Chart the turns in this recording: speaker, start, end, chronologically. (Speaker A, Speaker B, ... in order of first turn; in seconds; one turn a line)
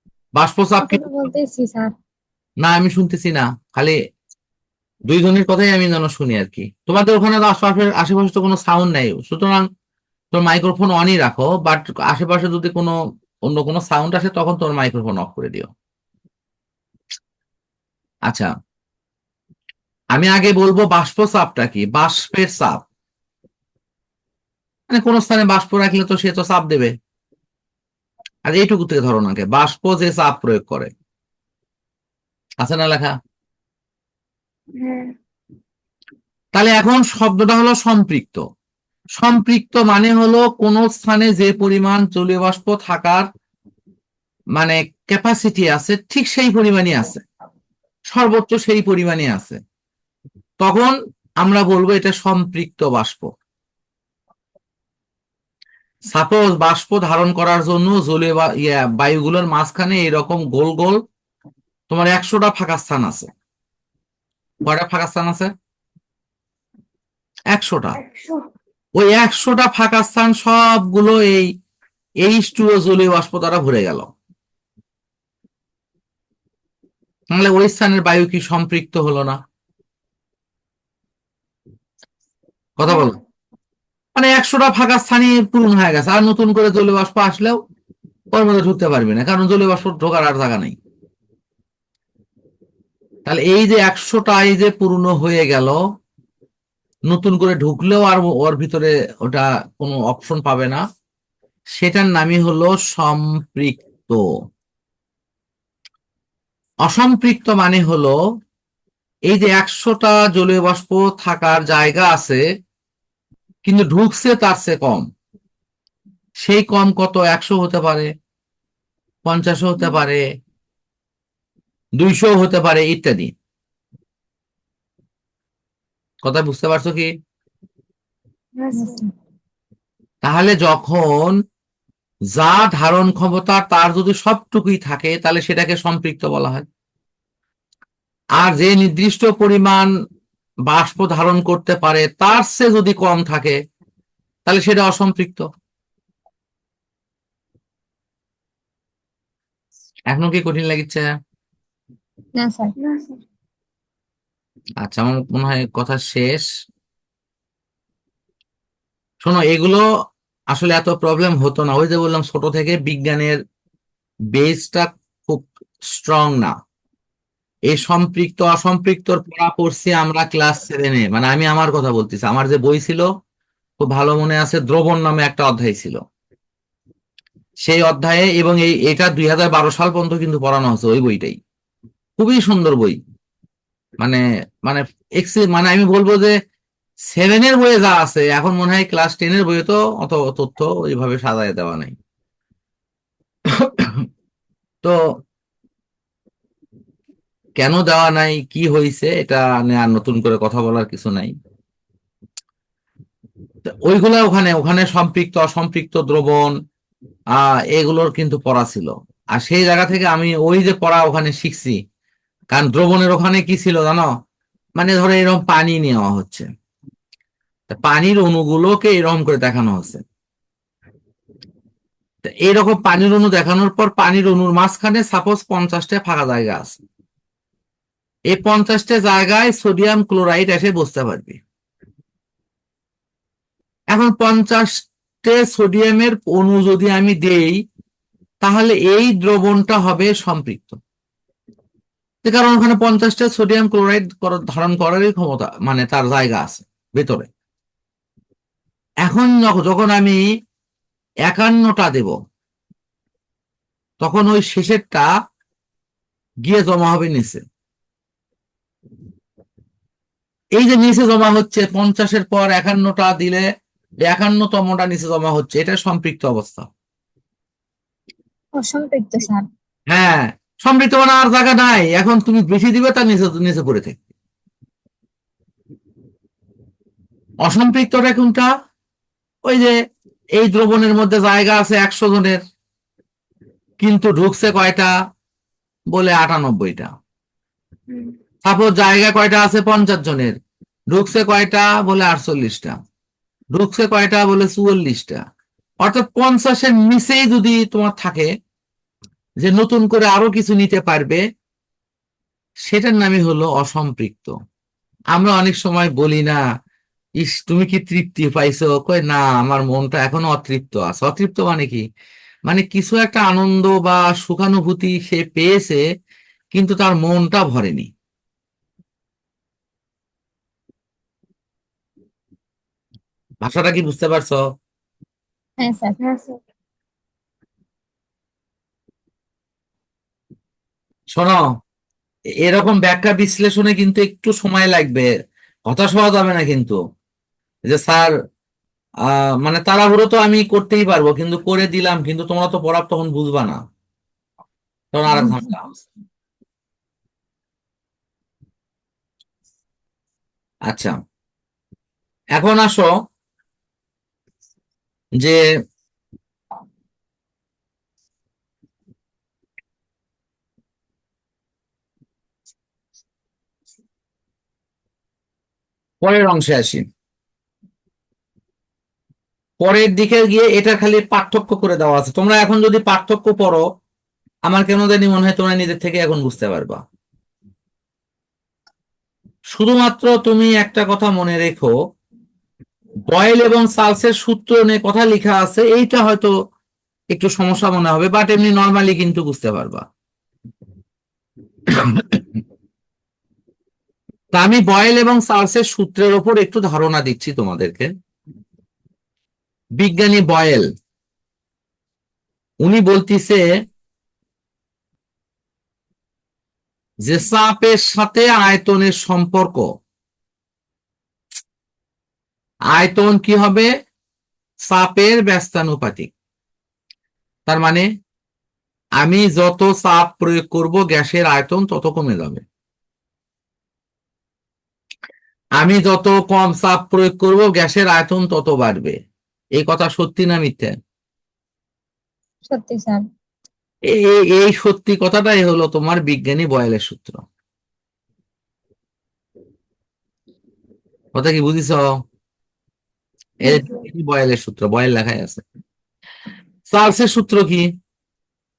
Speaker A: 0.4-1.0
Speaker B: 0.8-1.9
Speaker A: 2.6-4.0
Speaker A: 5.1-9.7
Speaker A: 10.3-12.9
Speaker A: 13.5-15.7
Speaker A: 20.1-22.8
Speaker A: 24.9-26.9
Speaker A: 28.5-30.9
Speaker A: 32.6-33.2
Speaker C: 34.8-35.1
Speaker A: 36.5-38.4
Speaker A: 39.2-43.3
Speaker A: 44.6-47.2
Speaker A: 48.1-49.6
Speaker A: 50.6-53.3
Speaker A: 56.1-61.0
Speaker A: 61.9-63.3
Speaker A: 64.6-65.5
Speaker A: 67.5-68.0
Speaker C: 68.0-68.5
Speaker A: 69.0-71.5
Speaker A: 72.2-74.1
Speaker A: 77.3-79.4
Speaker A: 82.8-83.2
Speaker A: 84.2-87.6
Speaker A: 88.3-90.8
Speaker A: 93.3-95.8
Speaker A: 97.1-100.8
Speaker A: 101.8-104.2
Speaker A: 106.9-108.1
Speaker A: 109.3-112.4
Speaker A: 113.7-115.1
Speaker A: 116.4-118.1
Speaker A: 119.3-120.2
Speaker A: 122.0-123.3
Speaker A: 126.2-127.1
Speaker C: 128.6-129.0
Speaker B: 128.8-129.1
Speaker A: 130.2-131.4
Speaker A: 132.3-136.7
Speaker A: 138.4-139.9
Speaker A: 140.7-143.6
Speaker A: 144.5-145.5
Speaker A: 150.1-151.1
Speaker B: 152.4-152.7
Speaker C: 152.8-153.2
Speaker A: 154.8-156.5
Speaker A: 159.2-159.8
Speaker A: 160.5-163.4
Speaker A: 164.3-166.6
Speaker A: 167.7-173.1
Speaker A: 173.8-176.0
Speaker A: 177.7-181.4
Speaker A: 182.2-183.0
Speaker A: 184.0-186.3
Speaker A: 187.1-191.9
Speaker A: 193.5-194.1
Speaker A: 197.6-201.3
Speaker A: 203.9-206.5
Speaker A: 207.4-211.8
Speaker A: 212.5-214.1
Speaker A: 214.8-216.5
Speaker A: 217.7-220.0
Speaker A: 222.2-226.8
Speaker A: 228.3-231.4
Speaker A: 233.9-237.6
Speaker A: 238.4-240.8
Speaker A: 242.2-247.3
Speaker A: 249.0-250.2
Speaker A: 251.3-252.2
Speaker A: 254.0-255.1
Speaker A: 256.5-257.4
Speaker A: 260.6-263.4
Speaker A: 264.1-266.7
Speaker B: 268.6-269.4
Speaker A: 269.9-274.0
Speaker A: 277.4-278.5
Speaker A: 279.5-279.8
Speaker A: 280.4-282.4
Speaker A: 283.8-284.9
Speaker A: 285.9-286.9
Speaker C: 287.9-288.2
Speaker A: 288.4-290.4
Speaker A: 290.9-292.8
Speaker A: 293.6-295.2
Speaker A: 295.8-298.3
Speaker A: 299.4-301.2
Speaker A: 302.7-304.4
Speaker A: 305.1-306.4
Speaker A: 307.2-311.8
Speaker A: 312.5-315.8
Speaker A: 316.5-317.9
Speaker A: 323.4-324.4
Speaker B: 325.6-326.0
Speaker C: 326.0-326.4
Speaker A: 331.2-331.4
Speaker A: 332.5-335.1
Speaker A: 335.7-336.8
Speaker A: 337.7-338.1
Speaker A: 339.1-343.6
Speaker A: 344.9-345.7
Speaker B: 345.1-345.5
Speaker A: 350.7-351.0
Speaker A: 352.4-352.9
Speaker A: 366.0-366.9
Speaker A: 369.6-373.6
Speaker A: 374.5-376.8
Speaker A: 379.6-381.7
Speaker A: 383.1-386.3
Speaker A: 387.1-389.9
Speaker A: 391.7-392.2
Speaker A: 394.4-397.9
Speaker A: 399.8-400.7
Speaker A: 402.6-403.4
Speaker A: 407.1-409.7
Speaker A: 412.8-413.7
Speaker A: 414.7-416.1
Speaker A: 417.5-417.9
Speaker A: 419.0-422.4
Speaker A: 425.6-429.0
Speaker A: 429.6-430.7
Speaker B: 432.5-433.1
Speaker A: 433.9-437.2
Speaker A: 441.1-441.9
Speaker A: 443.4-445.4
Speaker C: 443.5-443.8
Speaker A: 446.7-447.7